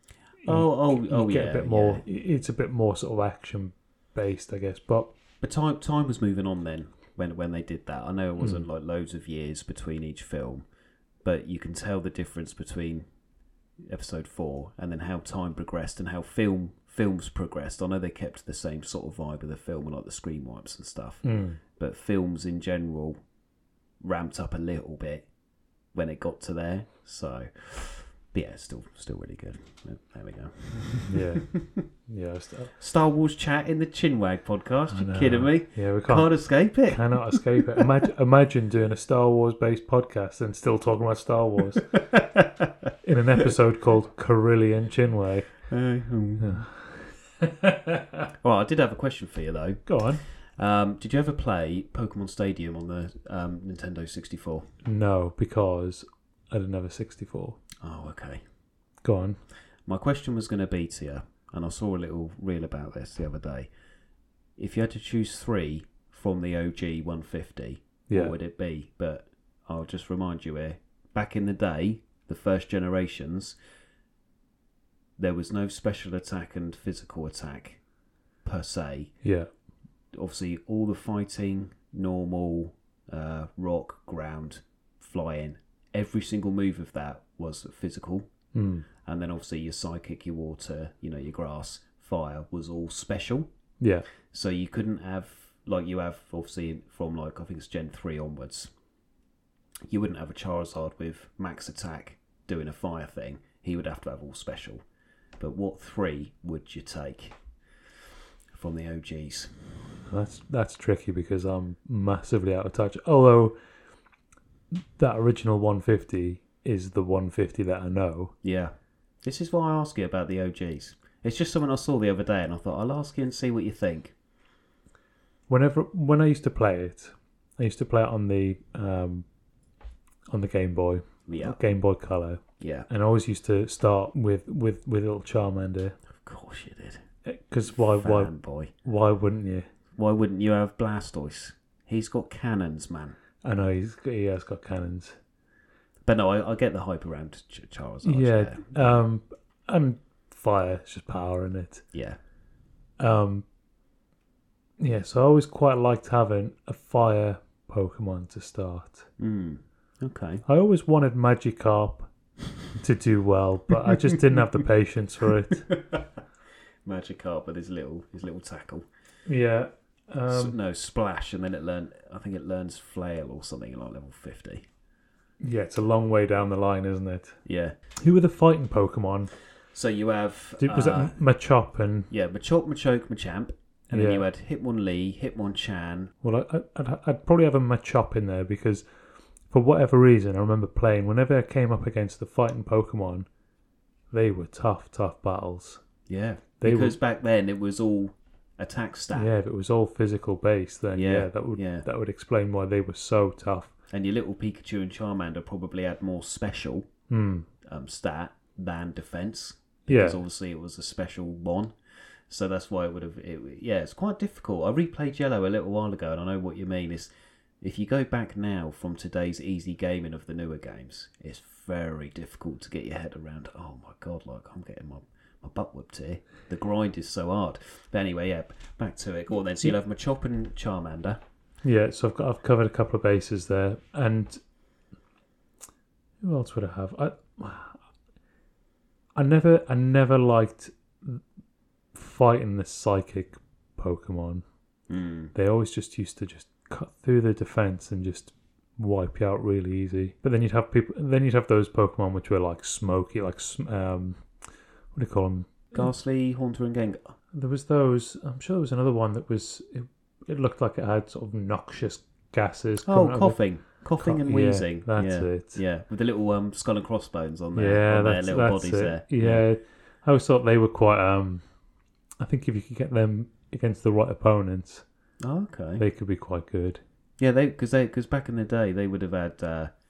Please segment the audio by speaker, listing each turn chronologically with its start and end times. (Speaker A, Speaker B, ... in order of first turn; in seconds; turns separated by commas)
Speaker A: 0.4-5.1, Speaker B: 0.5-2.0, Speaker B: 5.4-10.7, Speaker B: 11.2-13.1, Speaker B: 13.8-23.2, Speaker A: 21.2-21.6, Speaker B: 24.0-25.3, Speaker B: 25.9-31.8, Speaker A: 31.1-32.8, Speaker B: 32.8-37.8, Speaker A: 34.9-41.9, Speaker B: 42.0-42.9, Speaker A: 43.0-45.6, Speaker B: 45.7-46.7, Speaker A: 46.4-48.3, Speaker B: 48.4-54.7, Speaker A: 49.9-50.2, Speaker A: 54.9-57.6, Speaker B: 57.8-58.4, Speaker A: 59.0-59.4, Speaker B: 59.9-63.7, Speaker B: 64.6-73.5, Speaker A: 68.1-68.3, Speaker B: 75.2-77.8, Speaker B: 78.4-79.2, Speaker A: 79.2-79.5, Speaker B: 80.1-88.3, Speaker A: 88.5-88.9, Speaker B: 89.0-93.5, Speaker A: 93.8-94.1, Speaker B: 94.3-98.7, Speaker B: 99.9-104.8, Speaker B: 105.4-107.4, Speaker B: 108.5-109.5, Speaker A: 110.1-113.6, Speaker A: 114.7-118.3, Speaker B: 118.4-118.7, Speaker B: 119.2-124.2, Speaker A: 125.5-129.3, Speaker A: 130.3-136.0, Speaker B: 131.3-131.7, Speaker B: 132.6-132.9, Speaker B: 136.1-137.0, Speaker A: 137.2-139.7, Speaker B: 138.0-138.7, Speaker B: 140.0-143.2, Speaker A: 143.4-145.2, Speaker B: 146.1-149.0, Speaker A: 148.0-151.9, Speaker B: 151.9-152.2, Speaker A: 153.0-153.4, Speaker A: 154.8-159.1, Speaker B: 159.2-160.4, Speaker A: 160.5-162.1, Speaker A: 162.8-165.7, Speaker B: 165.7-166.2, Speaker B: 166.8-168.9, Speaker A: 169.3-170.6, Speaker B: 170.3-174.7, Speaker A: 175.4-177.4, Speaker B: 177.4-177.8, Speaker A: 178.0-179.3, Speaker B: 179.7-181.2, Speaker A: 180.6-182.1, Speaker B: 182.1-186.1, Speaker A: 183.9-184.2, Speaker A: 186.2-188.9, Speaker A: 189.5-193.3, Speaker A: 194.1-195.8, Speaker B: 196.1-199.3, Speaker A: 196.6-197.0, Speaker A: 199.1-203.7, Speaker B: 201.0-201.9, Speaker B: 203.9-206.9, Speaker A: 207.1-207.5, Speaker B: 207.6-211.8, Speaker A: 209.9-210.2, Speaker B: 212.3-217.1, Speaker B: 217.6-231.2, Speaker A: 231.6-234.4, Speaker A: 236.2-237.8, Speaker A: 239.2-241.2, Speaker A: 241.9-244.4, Speaker B: 244.9-245.3, Speaker A: 245.3-254.2, Speaker A: 254.9-255.9, Speaker B: 255.7-257.1, Speaker A: 257.3-263.4, Speaker B: 262.9-269.4, Speaker A: 264.0-265.6, Speaker A: 267.6-271.4, Speaker A: 272.2-274.9, Speaker B: 275.2-275.8, Speaker A: 275.8-276.8, Speaker B: 277.2-279.7